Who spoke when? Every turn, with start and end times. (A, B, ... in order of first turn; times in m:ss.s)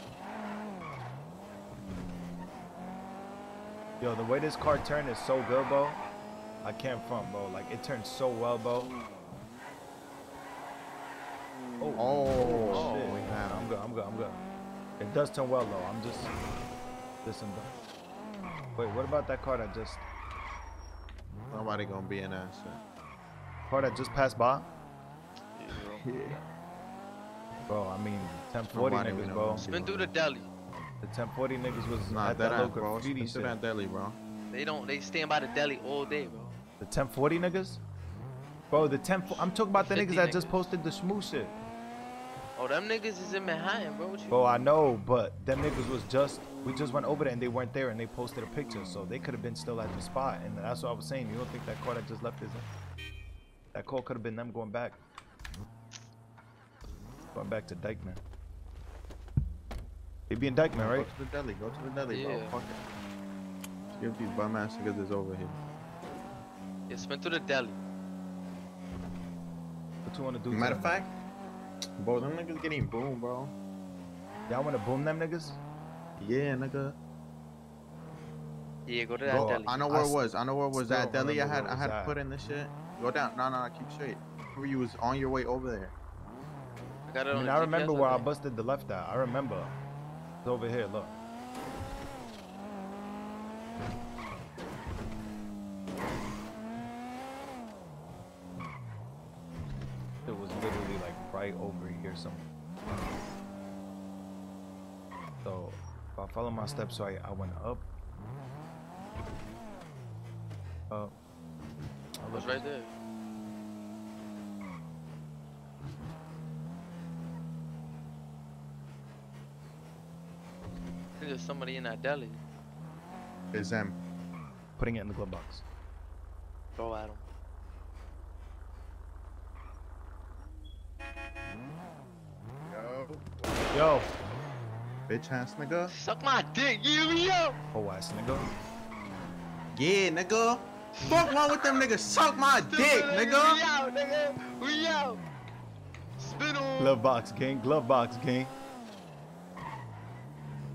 0:04.0-0:06.0 A
0:06.6-0:08.9 A
0:11.8-0:14.4 A
0:12.0-0:13.7 B
0:12.7-0:13.2 C
0:15.0-0:16.3 A
0:17.2-0:17.7 A
0:18.8-0:20.0 A
0:21.5-0:22.8 B
0:23.7-0:24.7 A
0:25.6-0:26.4 B
0:27.7-0:29.7 A
0:28.7-0:30.1 B
0:29.6-0:30.5 C
0:31.0-0:33.6 A
0:32.1-0:34.2 B
0:34.5-0:36.6 C
0:36.8-0:37.8 A
0:38.7-0:41.6 A
0:39.2-0:40.7 C
0:42.6-0:44.4 C
0:44.3-0:52.7 A
0:53.7-0:55.0 A
0:57.3-0:58.2 A
1:00.3-1:01.1 A
1:00.8-1:02.8 B
1:02.1-1:02.5 C
1:03.9-1:05.6 B
1:06.9-1:07.8 C
1:10.0-1:11.0 A
1:10.5-1:11.1 B
1:12.0-1:13.5 B
1:14.5-1:15.6 A
1:16.2-1:17.0 B
1:18.9-1:19.8 C
1:19.2-1:20.2 A
1:19.3-1:25.9 B
1:20.7-1:22.2 A
1:27.1-1:28.3 C
1:27.3-1:29.7 A
1:30.4-1:31.2 A
1:40.2-1:42.5 A
1:45.4-1:47.9 A
1:50.9-1:51.2 A
1:52.2-1:52.7 A
1:52.3-1:52.9 C
2:01.2-2:02.4 C
2:03.5-2:04.0 B
2:04.8-2:05.6 A
2:06.8-2:07.2 C
2:12.7-2:13.2 B
2:13.7-2:14.1 A
2:15.1-2:15.9 B
2:15.9-2:17.6 C
2:17.7-2:18.5 A
2:19.7-2:23.6 B
2:21.0-2:21.3 C
2:22.7-2:25.2 C
2:26.2-2:27.0 C
2:26.8-2:28.5 A